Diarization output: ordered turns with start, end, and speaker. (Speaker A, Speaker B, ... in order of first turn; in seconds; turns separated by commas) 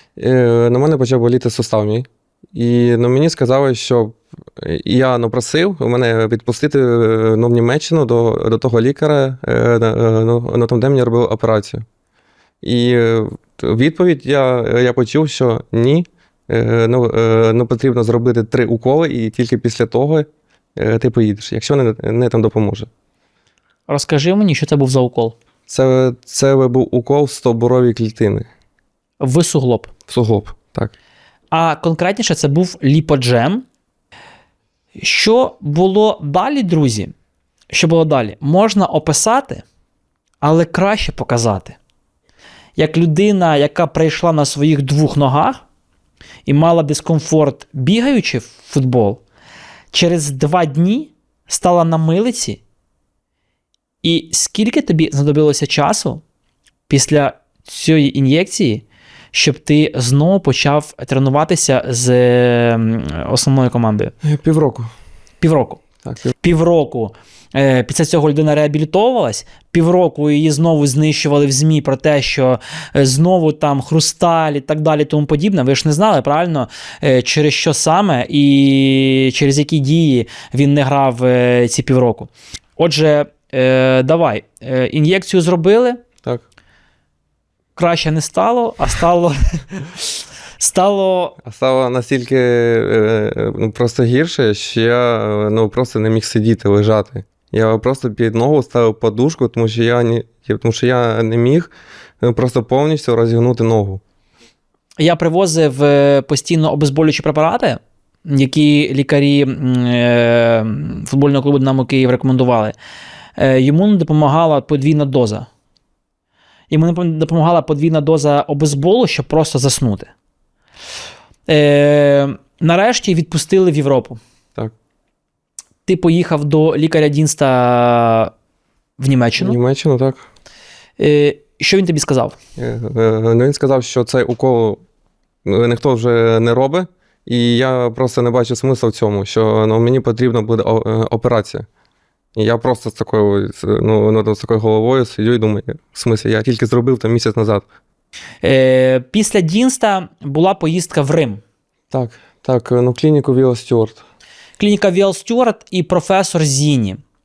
Speaker A: 0.2-11.8, Speaker A: 12.6-22.9, Speaker B: 23.9-25.4, Speaker A: 25.7-28.5, Speaker B: 29.2-29.9, Speaker A: 30.1-30.9, Speaker B: 31.5-33.6, Speaker B: 35.0-37.1, Speaker B: 37.7-39.6, Speaker B: 40.4-41.8, Speaker B: 42.8-45.6, Speaker B: 46.5-49.2, Speaker B: 49.9-52.6, Speaker B: 54.0-56.2, Speaker B: 56.9-64.1, Speaker A: 64.2-64.9, Speaker B: 65.4-65.8, Speaker A: 66.0-66.3, Speaker B: 66.4-86.0, Speaker B: 87.8-91.4, Speaker A: 91.4-101.7, Speaker A: 102.2-104.0, Speaker B: 105.0-112.8, Speaker B: 113.4-115.5, Speaker B: 116.7-120.1, Speaker B: 121.5-124.2, Speaker B: 125.9-128.3, Speaker B: 129.0-129.6, Speaker A: 129.4-130.3, Speaker B: 131.0-132.4, Speaker A: 132.6-134.8, Speaker A: 135.4-141.7, Speaker A: 142.4-147.7, Speaker B: 148.4-151.4, Speaker A: 151.9-154.0, Speaker B: 154.6-157.0